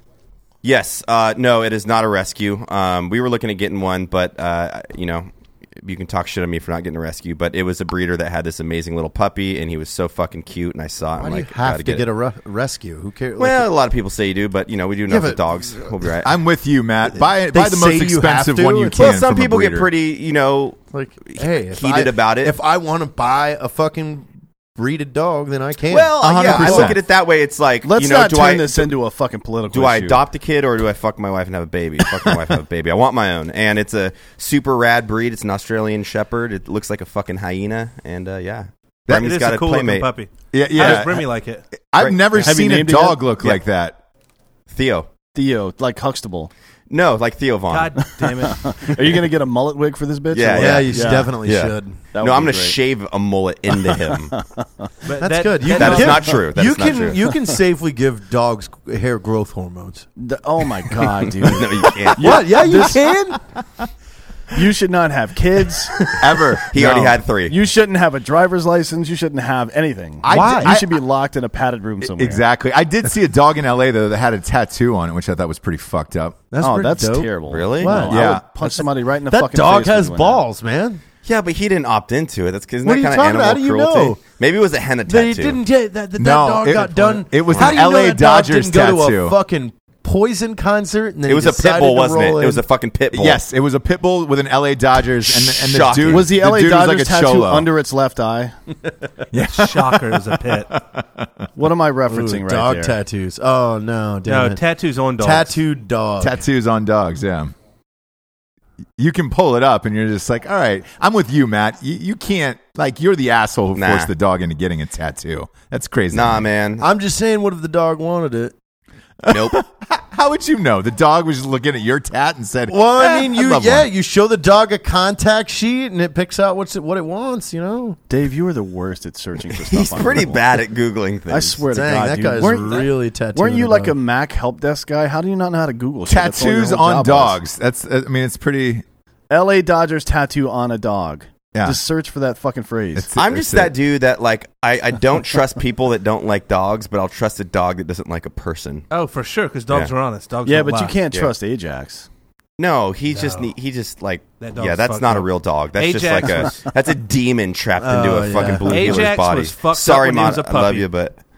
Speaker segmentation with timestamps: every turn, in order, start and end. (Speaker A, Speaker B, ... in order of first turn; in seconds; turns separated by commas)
Speaker A: 0.6-12.1, Speaker B: 11.2-13.7, Speaker A: 13.4-16.3, Speaker B: 15.1-15.9, Speaker C: 16.2-19.9, Speaker B: 17.1-19.0, Speaker A: 19.0-22.5, Speaker B: 20.9-26.9, Speaker A: 25.9-28.9, Speaker C: 26.2-27.0, Speaker D: 27.8-30.2, Speaker A: 29.7-40.1, Speaker C: 39.1-39.3, Speaker E: 39.1-41.6, Speaker C: 40.5-41.3, Speaker A: 40.8-41.1, Speaker C: 41.9-44.0, Speaker A: 42.0-42.5, Speaker D: 42.4-43.2, Speaker A: 44.7-45.1, Speaker D: 45.3-46.5, Speaker A: 46.9-48.0, Speaker E: 47.7-48.8, Speaker D: 48.0-51.4, Speaker A: 50.3-54.4, Speaker B: 50.5-52.0, Speaker D: 52.1-52.8, Speaker D: 53.9-54.9, Speaker E: 55.0-56.7, Speaker B: 55.2-60.1, Speaker A: 55.7-57.2, Speaker D: 60.2-63.1, Speaker A: 61.2-62.4, Speaker B: 62.2-63.4, Speaker D: 64.5-66.2, Speaker C: 66.2-67.2, Speaker A: 66.7-67.6, Speaker D: 66.8-72.4, Speaker C: 70.2-71.0, Speaker B: 70.3-70.8, Speaker C: 72.0-76.4, Speaker B: 76.5-81.0, Speaker D: 76.6-80.4, Speaker A: 77.5-78.1, Speaker C: 78.1-78.5, Speaker A: 81.2-85.6, Speaker B: 82.8-84.2, Speaker B: 85.1-92.6, Speaker C: 86.2-89.4, Speaker A: 87.5-87.8, Speaker A: 91.3-93.4, Speaker C: 93.1-97.7, Speaker A: 95.2-96.3, Speaker D: 96.0-98.5, Speaker C: 99.3-101.4, Speaker E: 99.5-100.7, Speaker D: 101.6-103.0, Speaker B: 102.1-104.6, Speaker E: 104.3-105.6, Speaker B: 105.2-106.4, Speaker C: 106.2-107.5, Speaker C: 109.0-116.5, Speaker A: 113.8-114.1, Speaker A: 116.1-116.8, Speaker B: 116.8-118.5, Speaker C: 119.2-123.9, Speaker A: 119.3-119.6, Speaker B: 122.7-128.0, Speaker D: 128.1-130.4, Speaker A: 129.5-131.6, Speaker D: 131.3-137.4, Speaker B: 131.7-134.0, Speaker C: 136.1-138.8, Speaker D: 139.3-143.1, Speaker C: 142.9-143.8, Speaker A: 143.2-148.9, Speaker E: 148.9-151.0, Speaker D: 150.4-152.1, Speaker A: 152.6-161.2, Speaker E: 153.1-153.5, Speaker E: 154.4-156.7, Speaker B: 157.8-159.1, Speaker E: 158.7-160.9